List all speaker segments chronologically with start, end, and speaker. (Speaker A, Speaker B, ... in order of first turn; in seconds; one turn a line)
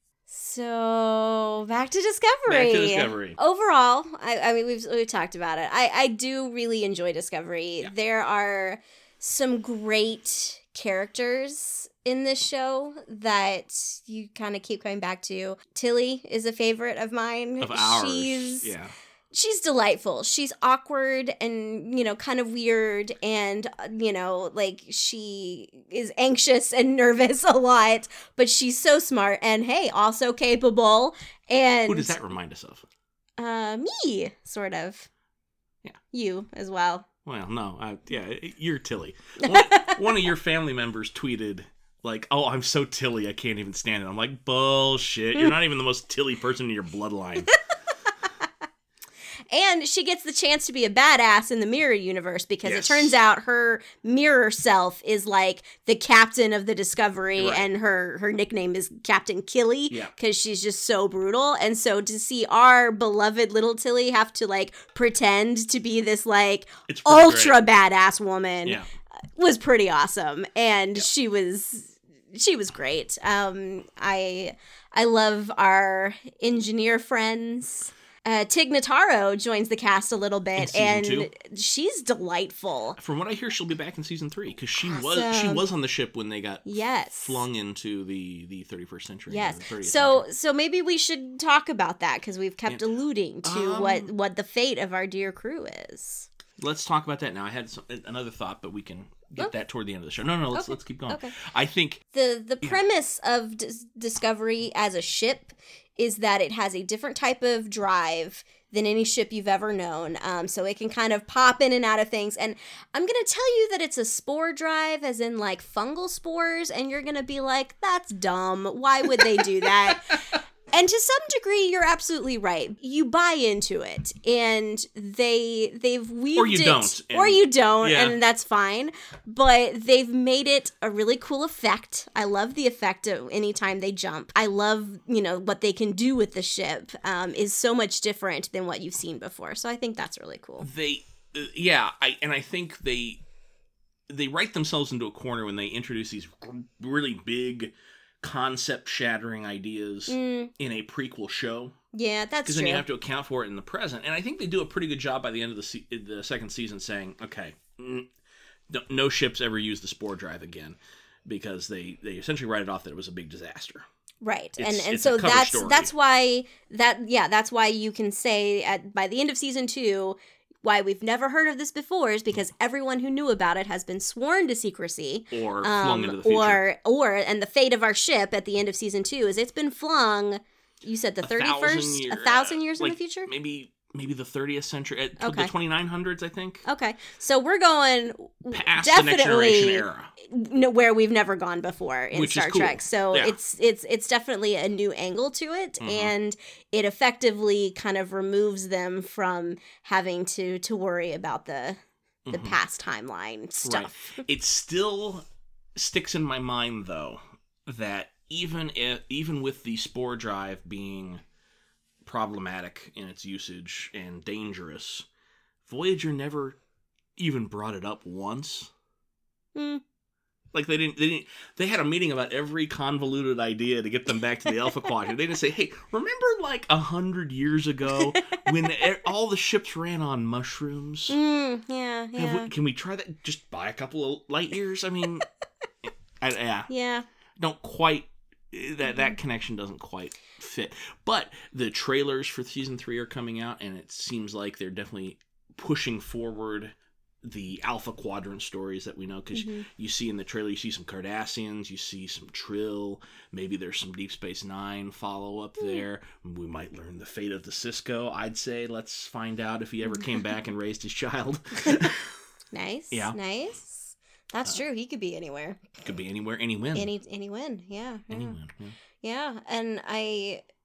Speaker A: 0.3-18.7
Speaker B: 2.5-3.4
Speaker B: 17.6-18.9
Speaker A: 19.3-32.1
Speaker B: 31.9-32.8
Speaker A: 33.4-35.1
Speaker A: 36.1-37.0
Speaker B: 37.2-47.5
Speaker A: 39.4-40.0
Speaker A: 49.5-68.8
Speaker B: 52.6-53.1
Speaker B: 57.4-57.7
Speaker B: 66.9-67.6
Speaker A: 69.3-83.0
Speaker B: 80.6-81.3
Speaker B: 83.0-90.2
Speaker A: 84.8-85.6
Speaker A: 86.6-87.4
Speaker A: 89.3-96.3
Speaker B: 93.4-94.1
Speaker B: 96.6-102.0
Speaker A: 100.5-101.3
Speaker A: 102.1-140.7
Speaker B: 126.3-128.2
Speaker B: 140.6-143.2
Speaker B: 144.1-151.8
Speaker A: 150.1-150.5
Speaker A: 151.9-152.8
Speaker B: 152.4-158.1
Speaker B: 158.7-163.8
Speaker A: 164.2-183.3
Speaker B: 164.6-165.9
Speaker B: 175.3-176.6
Speaker B: 181.2-186.6
Speaker A: 185.2-185.5
Speaker A: 186.6-204.2
Speaker B: 188.5-190.1
Speaker B: 192.1-193.3
Speaker B: 195.8-196.1
Speaker B: 202.2-202.6
Speaker B: 203.6-205.2
Speaker B: 205.8-211.2
Speaker B: 212.0-215.1
Speaker B: 215.6-216.6
Speaker B: 217.2-218.7
Speaker A: 219.5-219.8
Speaker B: 220.5-231.2
Speaker A: 228.0-228.5
Speaker A: 231.1-232.5
Speaker B: 232.2-235.2
Speaker B: 235.8-236.7
Speaker A: 236.7-237.0
Speaker B: 237.4-262.1
Speaker A: 238.9-239.1
Speaker A: 249.3-249.7
Speaker A: 262.5-265.7
Speaker B: 262.9-263.2
Speaker B: 265.8-266.9
Speaker A: 266.7-268.4
Speaker B: 268.1-268.7
Speaker A: 269.0-270.4